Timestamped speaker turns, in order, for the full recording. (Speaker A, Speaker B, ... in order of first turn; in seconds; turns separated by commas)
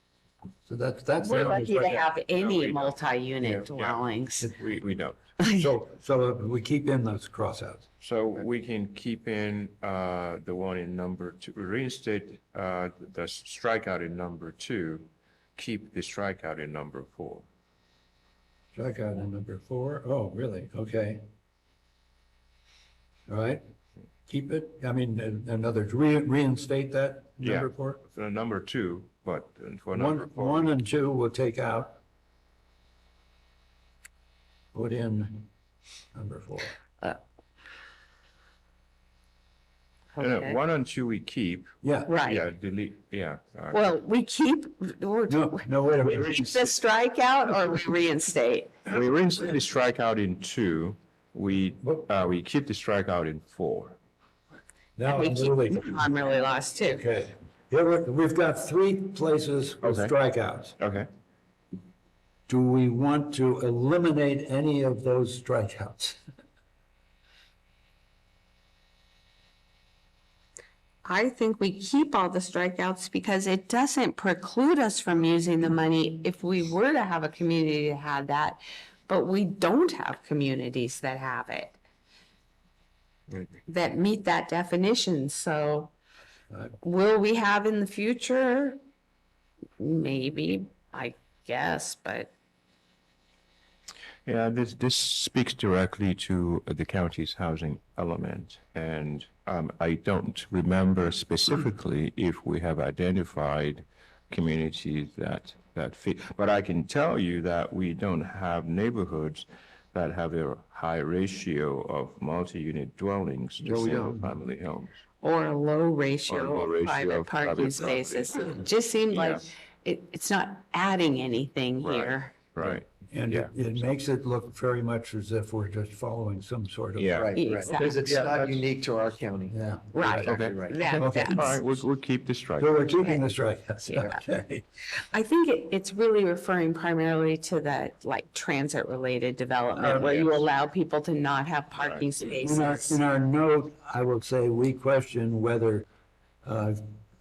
Speaker A: 0.7-2.0, Speaker B: 1.2-4.5, Speaker C: 2.0-5.2, Speaker A: 5.4-7.8, Speaker C: 8.0-17.5, Speaker A: 18.7-21.2, Speaker A: 23.3-23.6, Speaker A: 24.3-28.0, Speaker C: 27.4-30.7, Speaker A: 29.9-32.0, Speaker A: 34.7-35.5, Speaker A: 36.1-36.8, Speaker B: 40.2-40.6, Speaker C: 40.2-41.7, Speaker A: 41.8-42.1, Speaker B: 42.1-42.5, Speaker C: 42.2-43.8, Speaker B: 43.7-48.7, Speaker A: 45.3-46.8, Speaker C: 48.9-54.0, Speaker A: 51.8-52.1, Speaker A: 55.0-56.1, Speaker B: 55.1-57.0, Speaker A: 56.9-60.8, Speaker C: 59.8-60.1, Speaker C: 60.8-61.1, Speaker A: 62.5-66.2, Speaker B: 71.0-81.8, Speaker B: 83.7-85.9, Speaker B: 86.8-88.8, Speaker B: 89.8-92.3, Speaker C: 94.3-115.0, Speaker D: 113.6-114.3, Speaker B: 115.2-122.4, Speaker C: 116.3-118.6, Speaker C: 119.1-119.5, Speaker C: 121.8-123.5, Speaker A: 123.1-127.2, Speaker C: 127.0-127.3, Speaker D: 127.1-129.6, Speaker B: 127.3-128.4, Speaker A: 127.8-128.5, Speaker A: 129.5-130.4, Speaker B: 129.9-131.6, Speaker D: 130.1-130.9, Speaker C: 130.3-132.8, Speaker A: 130.9-131.6, Speaker A: 132.6-134.6, Speaker B: 133.0-133.3, Speaker B: 133.8-134.2, Speaker B: 135.1-143.0, Speaker A: 139.8-140.2, Speaker C: 140.0-140.3, Speaker C: 141.8-142.1, Speaker A: 142.4-145.9, Speaker A: 146.4-146.9